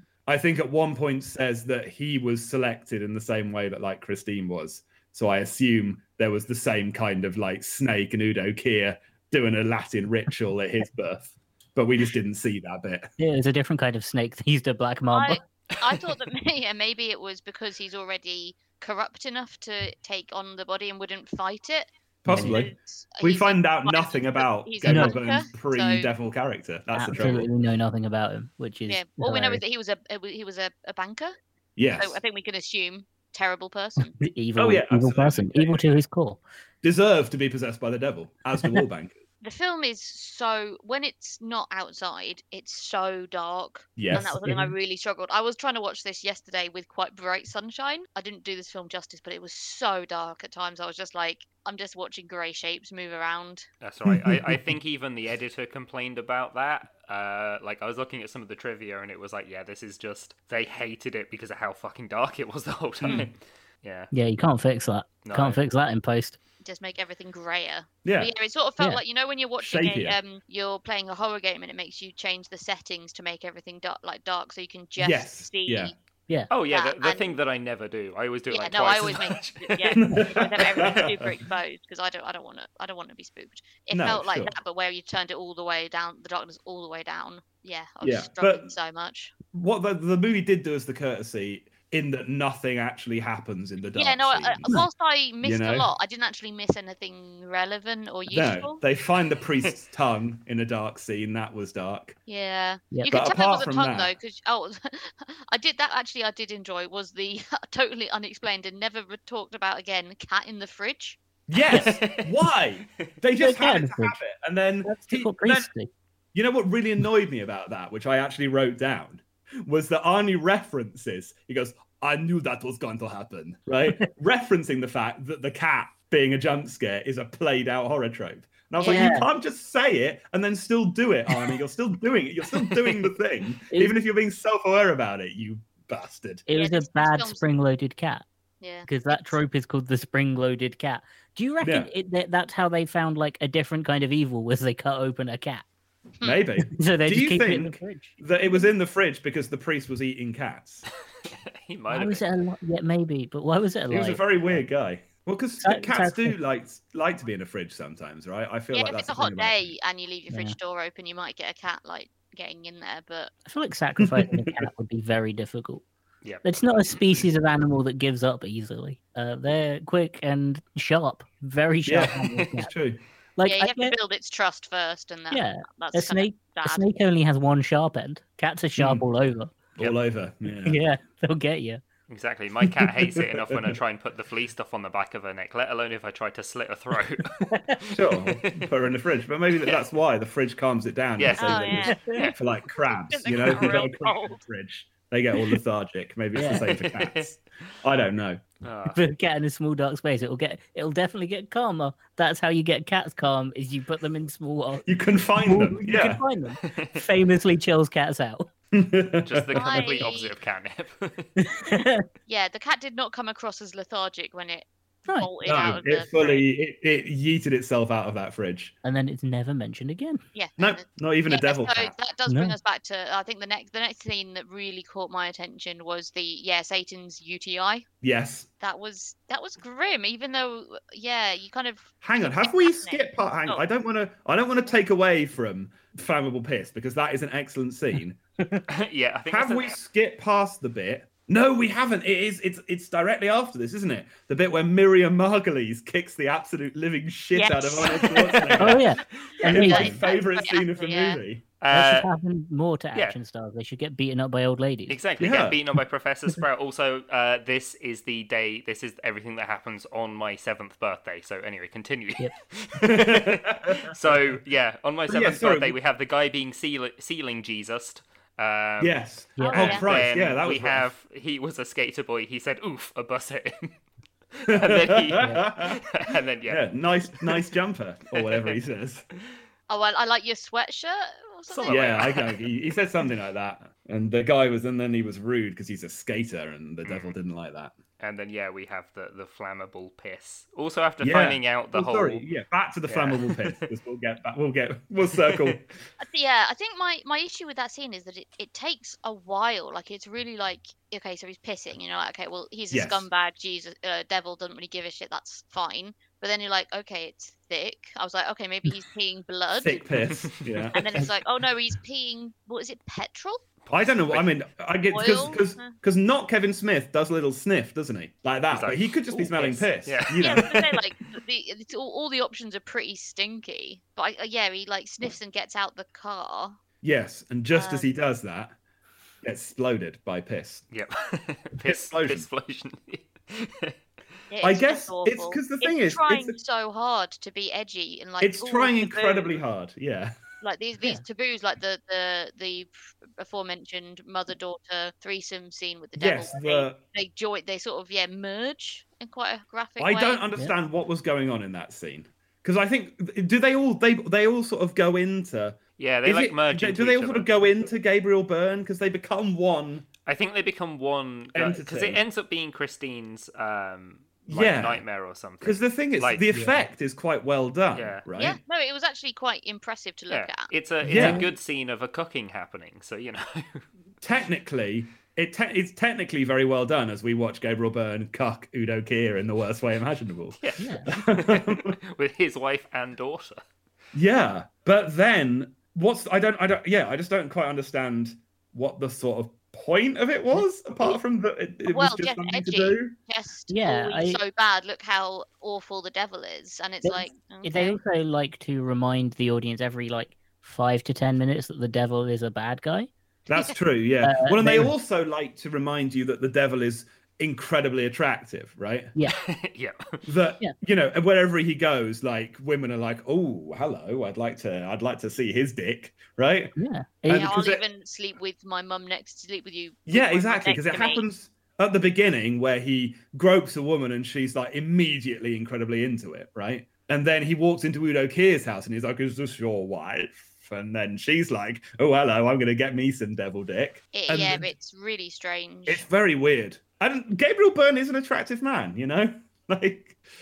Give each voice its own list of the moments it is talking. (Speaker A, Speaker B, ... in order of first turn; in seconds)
Speaker A: 0.3-13.1, 22.2-27.5, 31.8-32.2, 34.6-35.9, 36.8-39.2, 44.0-44.4, 54.1-54.4, 68.0-68.3, 69.6-70.2, 75.0-75.9, 80.0-81.3, 83.9-84.5, 88.0-88.7, 89.5-94.8, 95.4-95.9, 98.3-102.2, 103.1-104.1, 111.5-115.7, 116.3-136.4, 141.6-141.9, 146.2-150.9, 153.9-159.6, 164.2-164.7, 171.9-173.0, 178.8-179.1, 179.8-180.8, 182.8-183.8, 187.9-198.4, 204.9-206.2, 208.7-209.9, 215.4-218.7, 220.6-221.9, 228.0-228.5, 232.0-238.2, 239.3-251.4, 255.2-255.6, 262.9-264.1, 265.1-265.8, 268.8-270.9, 274.5-275.8, 276.5-279.1, 281.7-287.7, 291.0-295.7, 302.7-303.1, 309.6-311.1, 313.7-320.5, 326.8-328.6, 329.2-330.6, 331.6-332.3, 334.4-336.4, 338.2-340.1, 346.0-346.8, 349.8-359.9, 361.3-362.0, 364.3-364.8, 365.4-368.4, 370.9-371.2, 374.0-381.8, 383.9-392.9, 403.3-408.9, 410.0-417.6, 419.9-434.5, 435.7-440.0
Speaker B: 13.2-15.4, 22.3-22.6, 24.9-25.2, 26.9-29.6, 34.0-36.4, 44.1-44.7, 64.1-66.4, 113.4-114.2, 114.8-115.9, 128.8-129.3, 132.6-133.1, 133.7-133.9, 136.5-138.2, 138.9-145.6, 146.6-148.2, 151.9-154.6, 155.6-156.4, 163.4-165.8, 166.4-172.7, 173.4-173.9, 175.3-179.5, 180.7-181.8, 191.9-192.3, 196.3-196.7, 198.9-204.9, 205.4-208.5, 211.4-212.1, 218.8-220.2, 222.3-222.6, 248.6-250.0, 251.7-255.0, 269.4-269.8, 366.3-366.6, 370.9-371.3, 380.6-380.9, 393.5-394.2, 396.8-402.9, 404.0-404.7, 416.6-417.3
Speaker C: 15.1-26.1, 28.9-31.4, 31.9-34.1, 39.4-53.7, 66.6-76.0, 76.7-77.3, 78.5-89.3, 93.9-98.8, 102.3-111.2, 136.5-137.4, 138.6-139.4, 146.2-146.5, 158.7-163.3, 173.5-176.8, 191.4-194.4, 209.5-210.3, 212.3-216.4, 220.3-227.9, 228.6-233.7, 247.3-248.6, 249.4-251.2, 269.5-269.9, 279.7-282.3, 296.0-309.9, 310.7-313.4, 314.9-315.7, 320.2-326.6, 327.5-327.9, 334.3-339.4, 340.4-350.2, 368.2-370.5, 391.7-397.8, 417.1-421.0, 433.9-435.8
Speaker D: 53.8-64.1, 65.2-65.6, 76.5-81.2, 111.7-112.3, 151.3-152.3, 166.2-167.2, 182.1-188.6, 191.2-192.3, 196.5-197.3, 198.6-199.0, 206.6-207.0, 209.2-211.3, 238.7-239.8, 248.1-249.3, 251.6-252.1, 254.9-273.7, 274.4-277.4, 278.1-278.5, 281.5-282.4, 286.9-287.1, 288.0-292.2, 292.9-293.6, 295.1-295.6, 313.8-314.3, 318.5-320.9, 330.7-333.8, 355.8-357.4, 360.1-366.3, 367.7-368.0, 370.1-373.7, 380.4-383.4, 409.1-410.0